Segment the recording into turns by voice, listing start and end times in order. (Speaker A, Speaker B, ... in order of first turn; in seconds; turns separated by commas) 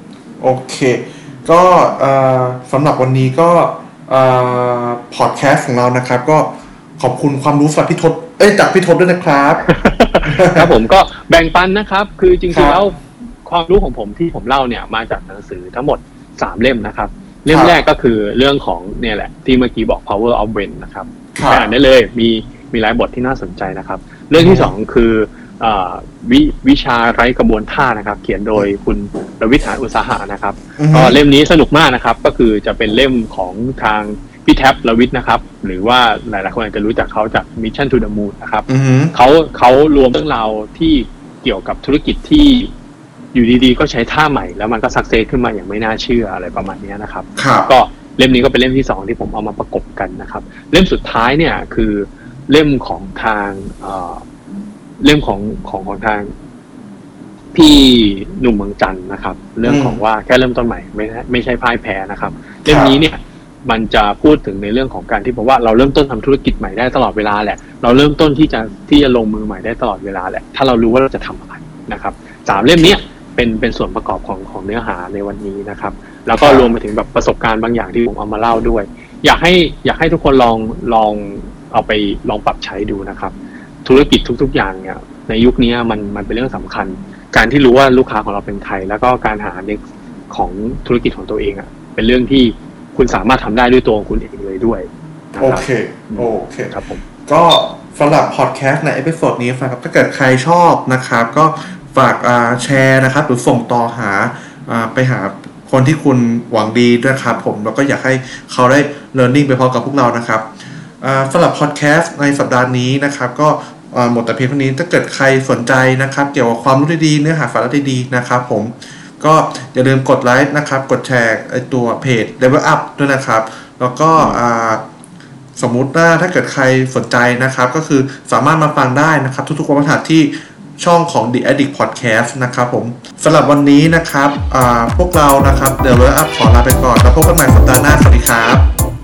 Speaker A: 0.4-9.7, Speaker B: 9.6-42.7, Speaker A: 10.2-10.7, Speaker A: 12.5-12.8, Speaker A: 17.5-17.8, Speaker A: 21.3-21.7, Speaker A: 24.4-24.7, Speaker A: 30.8-31.2, Speaker A: 38.7-39.1, Speaker B: 43.3-54.2, Speaker A: 47.4-47.7, Speaker B: 55.0-56.3, Speaker B: 57.5-83.3, Speaker A: 59.6-60.0, Speaker A: 62.6-62.9, Speaker A: 76.3-76.7, Speaker B: 83.8-97.0, Speaker A: 95.4-96.7, Speaker A: 97.3-110.5, Speaker A: 111.0-124.8, Speaker A: 125.6-138.7